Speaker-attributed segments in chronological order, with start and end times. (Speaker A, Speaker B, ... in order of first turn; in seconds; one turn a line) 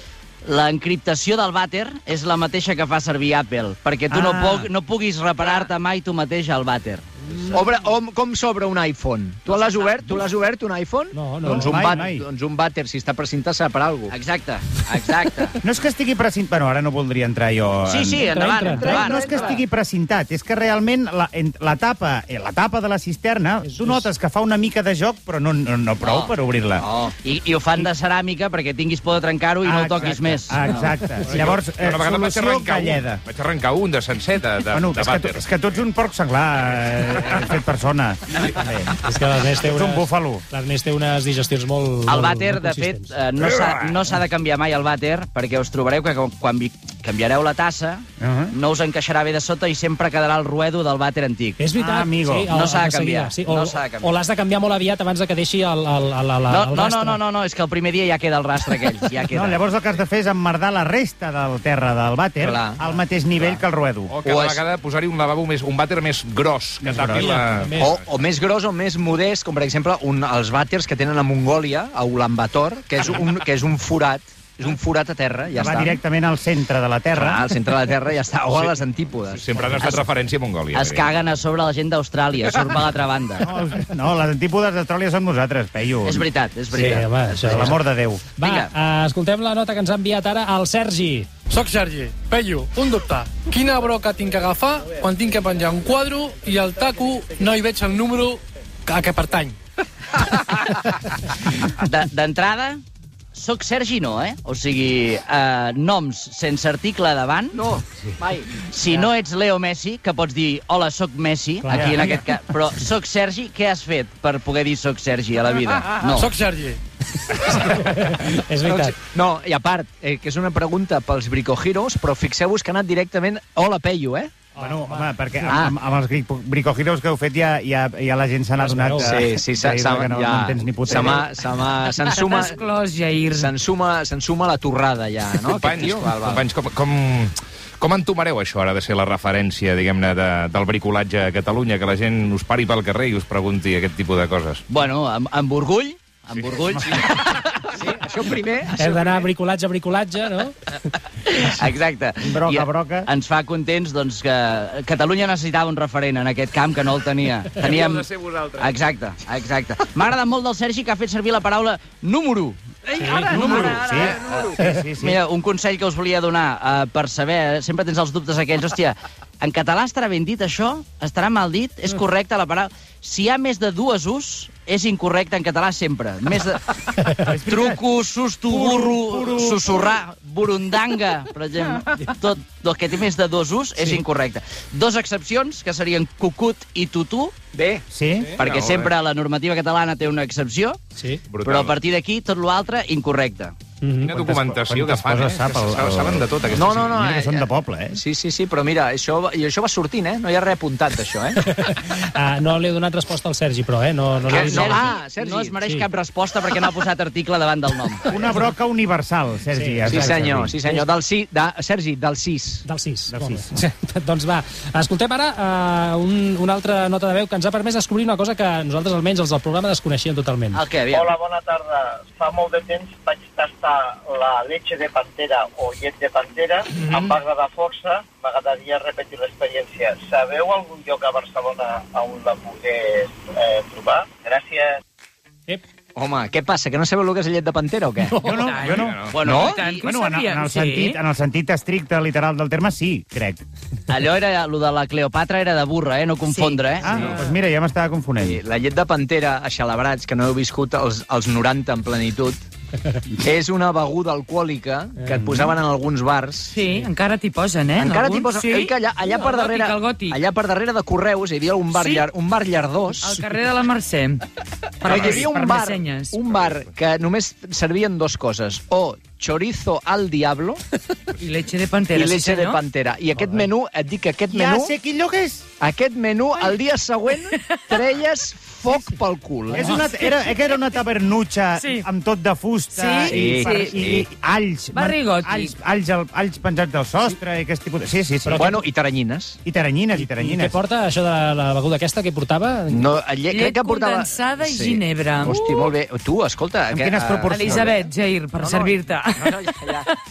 Speaker A: 0.4-7.6
Speaker B: 4.1-4.7
Speaker C: 7.5-14.1
Speaker A: 9.5-10.2
Speaker D: 11.1-12.0
Speaker B: 11.4-12.2
Speaker A: 14.1-15.6
Speaker B: 15.6-18.3
Speaker A: 17.9-19.3
Speaker D: 18.1-19.1
Speaker C: 18.6-19.6
Speaker B: 18.8-26.8
Speaker D: 23.6-24.1
Speaker A: 26.0-26.3
Speaker C: 26.8-27.1
Speaker A: 27.1-30.9
Speaker B: 29.6-33.2
Speaker D: 31.3-31.5
Speaker E: 31.3-35.4
Speaker B: 34.7-38.9
Speaker D: 39.0-43.1
Speaker B: 39.6-40.4
Speaker A: 42.1-51.6
Speaker E: 43.4-44.0
Speaker B: 48.2-48.5
Speaker D: 51.6-57.2
Speaker B: 51.8-52.5
Speaker A: 52.5-54.1
Speaker A: 56.5-59.6
Speaker B: 59.3-64.1
Speaker C: 62.4-62.8
Speaker E: 63.4-67.9
Speaker C: 64.2-64.6
Speaker B: 66.8-67.3
Speaker D: 67.1-67.9
Speaker C: 67.8-76.0
Speaker B: 75.6-77.4
Speaker C: 77.1-79.5
Speaker E: 79.3-81.1
Speaker A: 79.8-80.0
Speaker A: 80.7-83.5
Speaker B: 83.4-86.3
Speaker A: 86.0-87.7
Speaker D: 86.7-87.8
Speaker B: 87.4-88.2
Speaker D: 88.3-91.3
Speaker A: 88.4-88.7
Speaker F: 91.5-99.6
Speaker A: 101.8-102.8
Speaker A: 103.3-107.6
Speaker C: 107.5-108.7
Speaker A: 108.7-116.3
Speaker D: 111.6-112.0
Speaker B: 111.7-112.0
Speaker F: 116.0-116.8
Speaker D: 117.5-118.9
Speaker C: 118.7-124.3
Speaker D: 124.5-125.6
Speaker B: 124.6-131.3
Speaker C: 125.5-125.7
Speaker D: 128.6-129.2
Speaker C: 129.1-132.6
Speaker G: 132.0-133.5
Speaker C: 133.3-136.4
Speaker E: 135.4-144.6
Speaker A: 144.7-147.4
Speaker E: 146.3-146.7
Speaker B: 146.8-147.0
Speaker C: 147.7-149.2
Speaker D: 148.8-150.5
Speaker A: 151.2-162.6
Speaker B: 152.2-153.1
Speaker E: 157.6-158.8
Speaker C: 162.9-164.5
Speaker D: 163.0-163.6
Speaker B: 163.2-165.2
Speaker E: 163.5-164.4
Speaker A: 163.8-164.2
Speaker A: 165.0-176.7
Speaker B: 177.2-177.8
Speaker A: 177.2-187.3
Speaker B: 178.5-179.9
Speaker C: 187.5-187.8
Speaker B: 187.9-188.3
Speaker A: 188.4-190.8
Speaker E: 188.4-188.9
Speaker D: 191.0-191.2
Speaker E: 191.3-191.8
Speaker A: 191.4-193.5
Speaker D: 193.8-194.1
Speaker E: 194.0-197.0
Speaker B: 194.1-198.0
Speaker C: 196.5-201.4
Speaker D: 201.4-204.9
Speaker C: 204.3-205.6
Speaker A: 204.3-208.0
Speaker B: 208.1-210.6
Speaker D: 208.2-208.5
Speaker D: 209.5-210.8
Speaker C: 209.9-212.6
Speaker D: 212.6-220.6
Speaker B: 213.1-213.5
Speaker A: 220.5-221.1
Speaker H: 220.9-234.8
Speaker C: 235.9-238.2
Speaker D: 238.1-238.6
Speaker B: 238.2-243.4
Speaker G: 238.3-238.8
Speaker E: 238.7-239.3
Speaker A: 239.1-239.9
Speaker C: 239.2-239.6
Speaker G: 239.4-241.0
Speaker A: 243.9-246.8
Speaker G: 246.3-246.8
Speaker B: 246.8-248.4
Speaker C: 246.8-247.2
Speaker D: 246.9-247.3
Speaker C: 248.2-252.4
Speaker C: 253.2-256.6
Speaker D: 255.0-255.5
Speaker G: 256.5-260.2
Speaker C: 257.8-263.2
Speaker G: 261.7-262.1
Speaker G: 262.9-264.2
Speaker G: 264.8-266.2
Speaker E: 264.9-265.3
Speaker C: 264.9-270.6
Speaker B: 264.9-265.6
Speaker E: 266.3-266.7
Speaker G: 271.2-272.6
Speaker C: 271.9-274.7
Speaker B: 274.3-275.5
Speaker C: 275.6-279.7
Speaker D: 279.5-279.9
Speaker B: 279.5-288.5
Speaker G: 281.6-281.9
Speaker G: 282.7-283.9
Speaker C: 283.1-284.1
Speaker G: 284.7-285.5
Speaker D: 288.2-288.6
Speaker C: 288.3-289.4
Speaker B: 289.4-290.6
Speaker D: 289.9-292.9
Speaker C: 292.7-297.8
Speaker G: 293.3-295.7
Speaker B: 296.7-297.8
Speaker G: 297.2-299.9
Speaker C: 298.4-299.9